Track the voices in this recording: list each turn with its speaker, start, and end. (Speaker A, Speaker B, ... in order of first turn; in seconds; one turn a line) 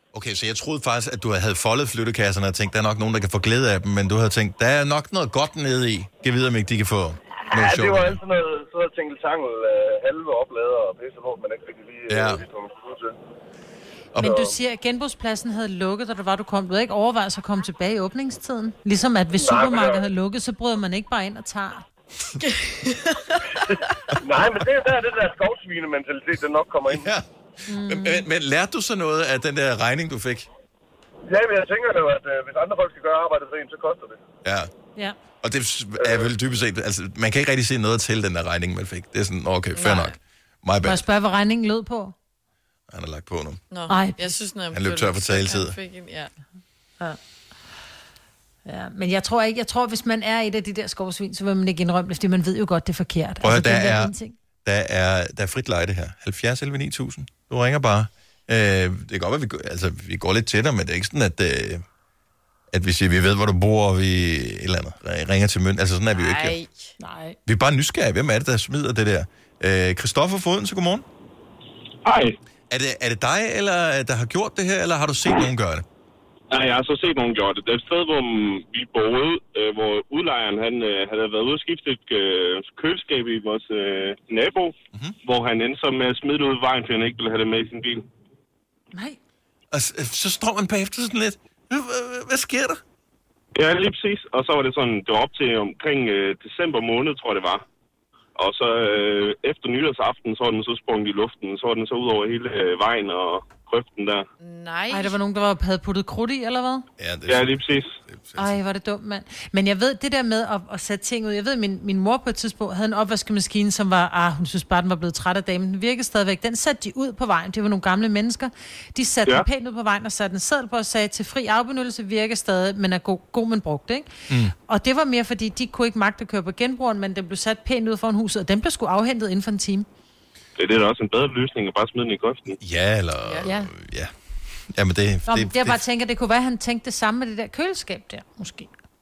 Speaker A: 0.1-8.2
Speaker B: 7.5-13.1
Speaker A: 12.1-12.4
Speaker C: 14.2-21.9
Speaker B: 14.2-14.5
Speaker B: 19.3-20.0
Speaker D: 22.4-23.6
Speaker B: 24.2-27.1
Speaker A: 26.9-30.5
Speaker C: 27.7-28.2
Speaker B: 31.2-34.2
Speaker A: 34.4-34.7
Speaker A: 35.4-41.0
Speaker B: 36.0-36.3
Speaker D: 39.7-40.1
Speaker C: 40.8-42.1
Speaker A: 42.9-43.6
Speaker D: 43.7-46.3
Speaker C: 43.9-44.3
Speaker A: 44.7-45.7
Speaker C: 48.6-54.3
Speaker A: 53.4-54.1
Speaker A: 54.6-61.8
Speaker A: 62.7-66.6
Speaker D: 66.1-66.9
Speaker C: 67.0-67.4
Speaker A: 67.5-71.0
Speaker E: 72.0-72.3
Speaker A: 72.7-75.8
Speaker E: 76.5-88.0
Speaker C: 88.9-89.2
Speaker A: 89.7-92.8
Speaker E: 93.5-97.6
Speaker E: 98.3-104.2
Speaker D: 104.4-105.2
Speaker C: 104.9-106.8
Speaker A: 107.0-108.6
Speaker E: 107.3-107.9
Speaker C: 108.4-129.9
Speaker A: 124.3-124.5
Speaker E: 130.6-132.6
Speaker A: 132.6-134.1
Speaker C: 133.4-133.7
Speaker A: 134.7-135.8
Speaker C: 135.3-138.7